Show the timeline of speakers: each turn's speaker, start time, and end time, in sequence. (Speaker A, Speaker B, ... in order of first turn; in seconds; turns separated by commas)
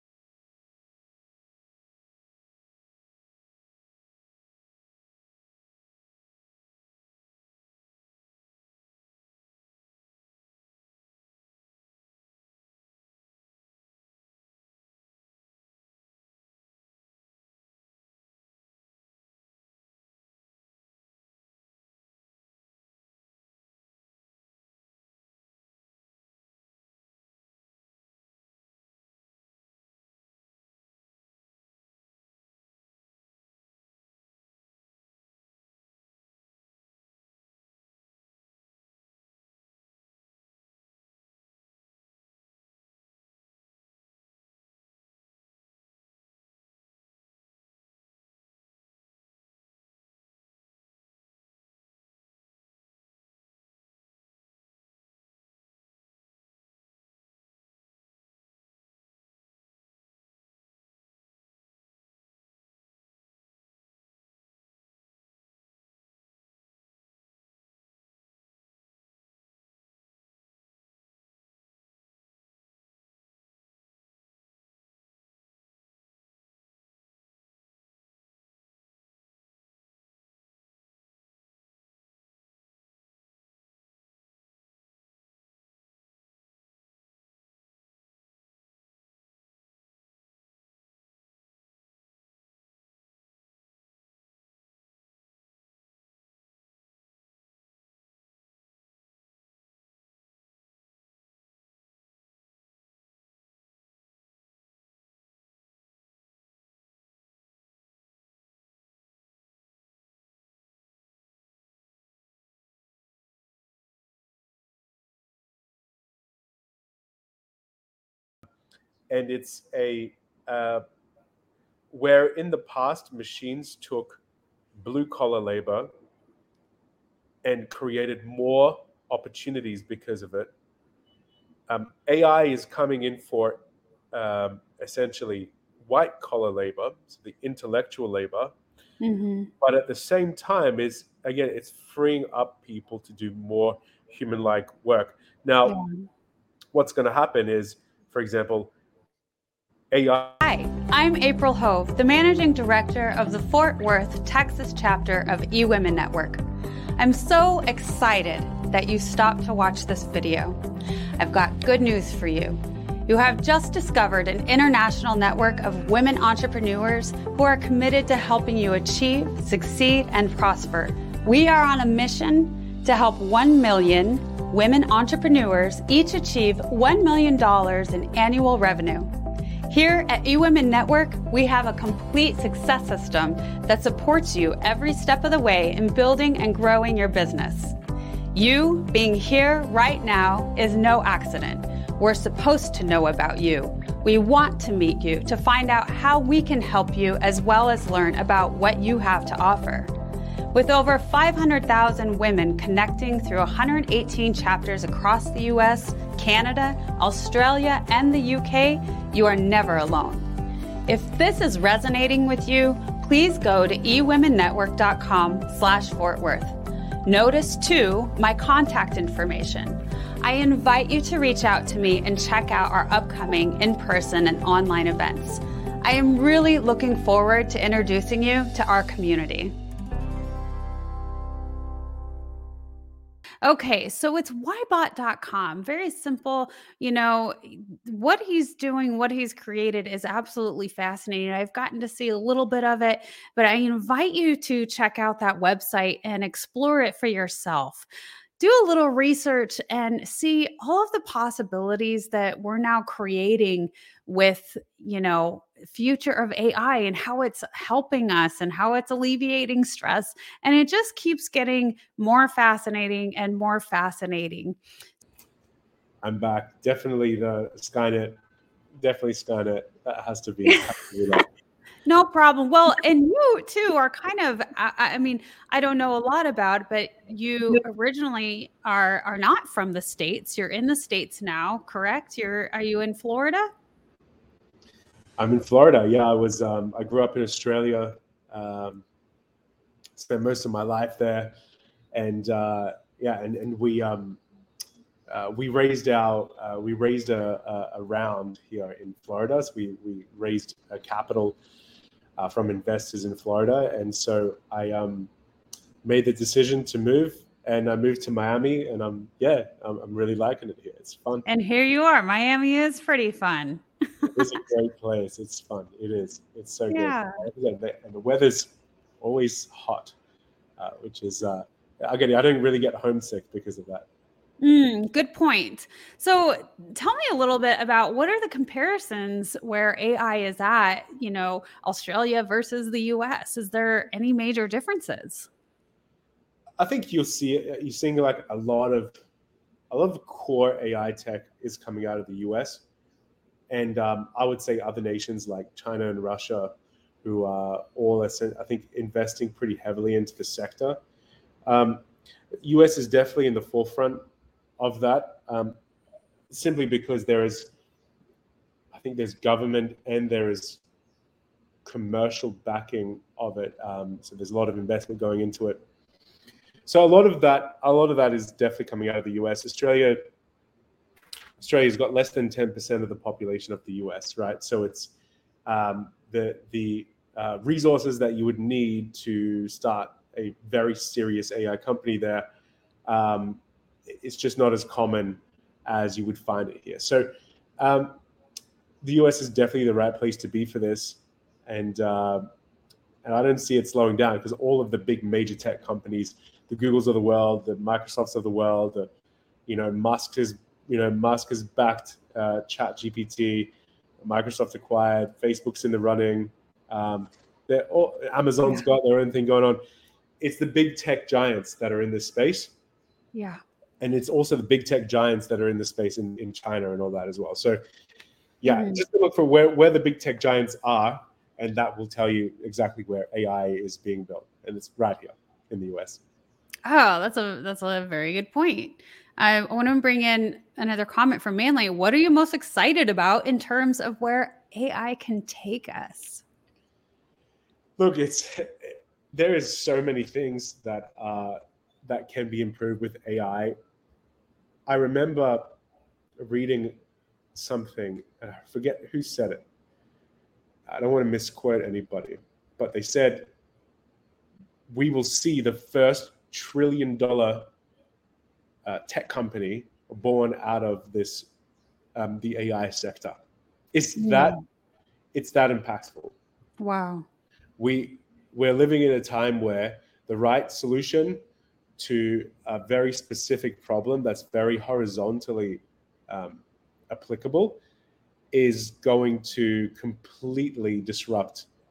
Speaker A: 119.1-120.8, Speaker A: 121.9-124.2, Speaker A: 124.8-125.9, Speaker A: 127.4-130.5, Speaker A: 131.7-138.5, Speaker B: 139.0-139.5, Speaker A: 139.6-145.8, Speaker B: 145.7-146.1, Speaker A: 146.7-148.7, Speaker A: 149.9-150.4, Speaker B: 150.4-156.4, Speaker B: 157.0-160.6, Speaker B: 161.2-179.1, Speaker B: 179.7-187.8, Speaker B: 188.3-199.9, Speaker B: 200.5-210.3, Speaker B: 210.9-229.6, Speaker B: 233.4-264.6, Speaker A: 266.0-268.2, Speaker A: 268.8-271.3, Speaker B: 271.9-283.5, Speaker A: 285.2-288.8, Speaker A: 290.0-291.4, Speaker A: 291.9-294.2, Speaker A: 295.1-301.4, Speaker A: 302.2-305.1, Speaker A: 305.8-311.3, Speaker B: 311.3-314.2, Speaker A: 314.1-319.9, Speaker B: 316.7-317.1, Speaker A: 320.6-323.9, Speaker B: 324.4-335.3, Speaker A: 336.6-338.9, Speaker A: 339.7-342.6, Speaker A: 343.5-346.5, Speaker A: 347.0-350.8, Speaker A: 351.5-351.8, Speaker A: 352.4-354.0, Speaker A: 354.6-355.6, Speaker A: 356.3-357.5, Speaker A: 358.7-360.6, Speaker A: 361.6-365.6, Speaker A: 366.7-370.0, Speaker A: 371.4-374.9, Speaker A: 375.5-382.3, Speaker A: 382.9-388.0, Speaker A: 388.8-392.3, Speaker A: 393.0-398.9, Speaker A: 399.5-409.6, Speaker A: 410.2-412.5, Speaker B: 413.1-413.4, Speaker A: 413.8-417.6, Speaker A: 418.4-426.0, Speaker B: 418.5-418.8, Speaker B: 426.6-436.2, Speaker A: 437.8-443.6, Speaker A: 444.7-445.6, Speaker A: 446.2-446.8, Speaker A: 447.4-449.4, Speaker A: 450.7-453.3, Speaker A: 454.7-457.5, Speaker A: 458.6-461.3, Speaker A: 461.9-464.4, Speaker B: 464.0-464.4, Speaker A: 465.1-466.2, Speaker B: 466.6-467.1, Speaker A: 467.6-471.2, Speaker A: 471.8-477.6, Speaker A: 478.3-481.5